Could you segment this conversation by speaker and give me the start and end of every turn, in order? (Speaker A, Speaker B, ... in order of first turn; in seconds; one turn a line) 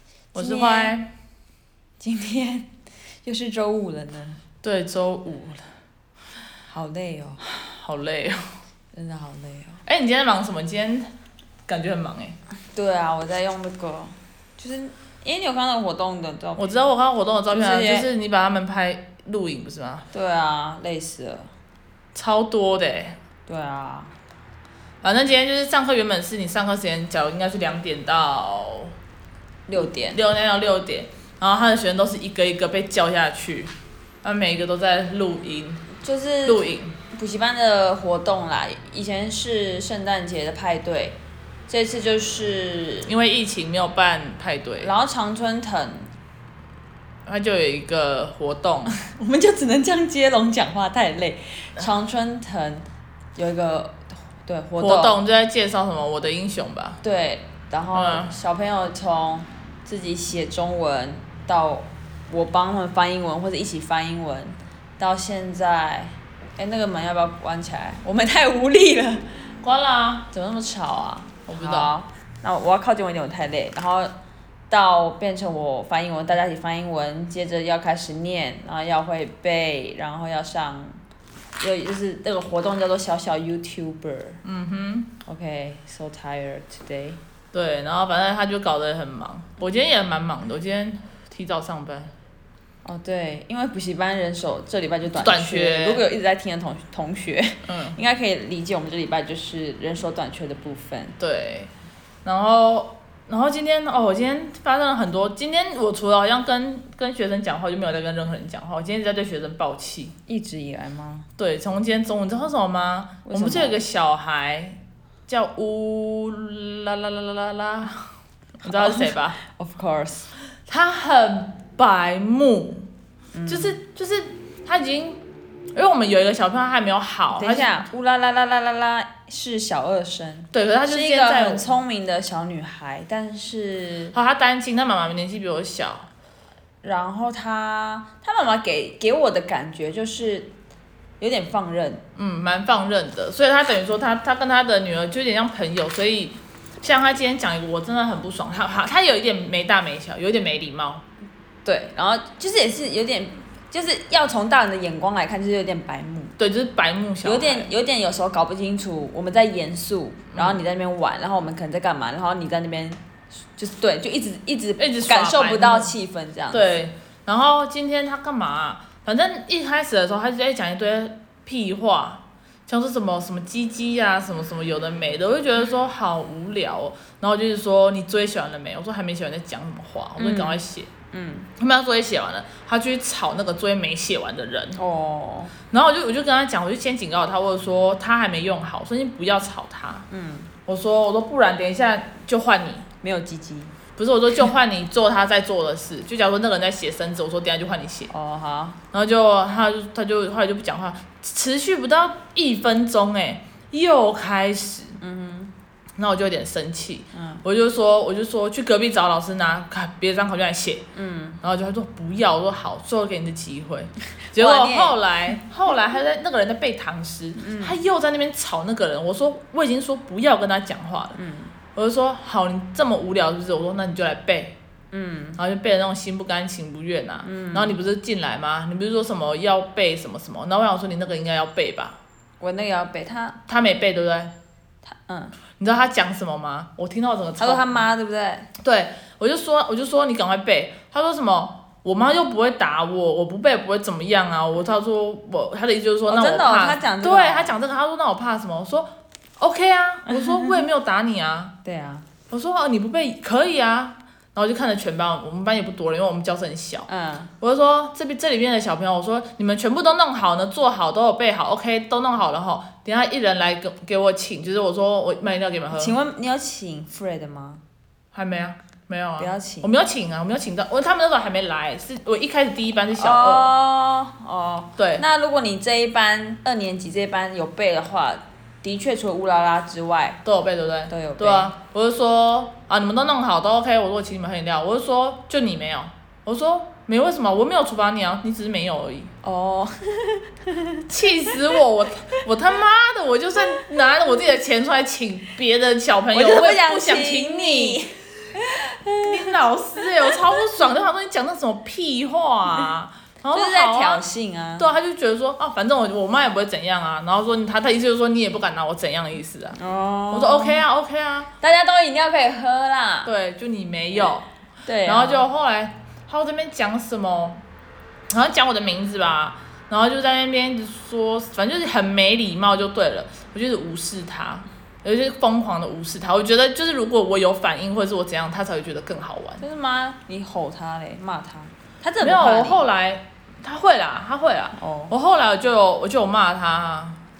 Speaker A: 0.3-0.9
Speaker B: 0.3-1.1
Speaker A: 2.0-2.7
Speaker A: 3.2-4.4
Speaker B: 4.6-5.7
Speaker A: 6.7-7.4
Speaker B: 7.6-8.4
Speaker A: 8.9-9.8
Speaker B: 9.8-11.1
Speaker B: 11.7-12.3
Speaker A: 12.7-16.8
Speaker B: 16.6-20.1
Speaker A: 17.5-18.1
Speaker A: 20.1-21.5
Speaker B: 22.1-23.2
Speaker A: 23.5-24.1
Speaker B: 25.0-28.9
Speaker A: 29.7-30.2
Speaker B: 29.7-33.7
Speaker B: 34.2-35.9
Speaker A: 36.0-41.2
Speaker B: 36.5-36.9
Speaker A: 41.7-43.1
Speaker B: 43.1-44.9
Speaker A: 44.8-46.1
Speaker B: 47.2-48.9
Speaker A: 49.0-52.8
Speaker A: 53.4-55.2
Speaker B: 54.8-57.0
Speaker A: 57.0-69.3
Speaker B: 57.9-58.3
Speaker B: 69.6-70.3
Speaker A: 70.3-74.1
Speaker B: 71.5-71.9
Speaker A: 74.7-81.0
Speaker A: 81.6-84.4
Speaker B: 84.4-85.1
Speaker A: 85.2-87.2
Speaker B: 87.5-92.1
Speaker A: 92.8-101.2
Speaker B: 95.1-96.0
Speaker B: 97.7-98.0
Speaker B: 101.2-101.7
Speaker B: 102.2-110.1
Speaker A: 110.3-111.3
Speaker B: 111.4-118.0
Speaker A: 113.2-113.8
Speaker B: 118.6-119.4
Speaker A: 118.7-120.3
Speaker B: 120.7-122.9
Speaker A: 123.3-123.8
Speaker B: 123.5-125.2
Speaker B: 125.7-127.8
Speaker A: 127.3-134.2
Speaker B: 130.5-131.7
Speaker B: 134.1-136.1
Speaker A: 136.8-140.5
Speaker A: 141.2-142.0
Speaker B: 142.2-151.0
Speaker A: 151.6-156.3
Speaker B: 156.4-157.7
Speaker A: 157.2-163.0
Speaker B: 160.3-160.6
Speaker A: 163.5-166.8
Speaker B: 164.8-165.9
Speaker B: 166.5-180.9
Speaker A: 180.2-180.6
Speaker A: 181.1-181.5
Speaker B: 181.6-184.8
Speaker A: 184.8-185.5
Speaker B: 185.7-190.1
Speaker A: 190.1-190.5
Speaker B: 190.7-192.8
Speaker A: 193.0-193.7
Speaker B: 194.0-198.1
Speaker A: 198.1-198.8
Speaker B: 198.9-205.0
Speaker A: 205.0-205.5
Speaker B: 206.0-210.8
Speaker A: 207.1-207.4
Speaker A: 210.9-211.4
Speaker B: 211.4-221.2
Speaker A: 214.3-215.0
Speaker A: 217.3-217.8
Speaker A: 221.1-221.5
Speaker B: 221.8-224.5
Speaker A: 224.9-225.4
Speaker B: 225.4-232.0
Speaker A: 227.2-227.8
Speaker A: 232.4-233.4
Speaker B: 233.5-234.3
Speaker A: 234.8-235.4
Speaker B: 235.6-237.8
Speaker A: 237.4-238.5
Speaker B: 238.6-251.5
Speaker A: 246.1-247.5
Speaker A: 250.1-250.6
Speaker A: 251.6-252.1
Speaker B: 252.3-256.9
Speaker A: 256.9-257.3
Speaker B: 257.4-266.0
Speaker A: 265.7-267.6
Speaker B: 268.1-273.5
Speaker A: 269.2-269.7
Speaker A: 273.0-280.2
Speaker B: 274.8-275.0
Speaker B: 280.2-289.1
Speaker A: 280.9-281.5
Speaker A: 289.2-290.8
Speaker B: 290.9-297.8
Speaker A: 296.1-299.3
Speaker B: 299.0-304.0
Speaker A: 303.3-304.7
Speaker B: 304.6-309.6
Speaker A: 309.5-310.6
Speaker B: 310.1-311.3
Speaker A: 311.4-313.1
Speaker B: 313.0-314.3
Speaker A: 314.6-315.2
Speaker B: 314.9-317.4
Speaker B: 318.1-329.4
Speaker A: 329.4-332.6
Speaker B: 332.0-337.0
Speaker A: 334.6-334.9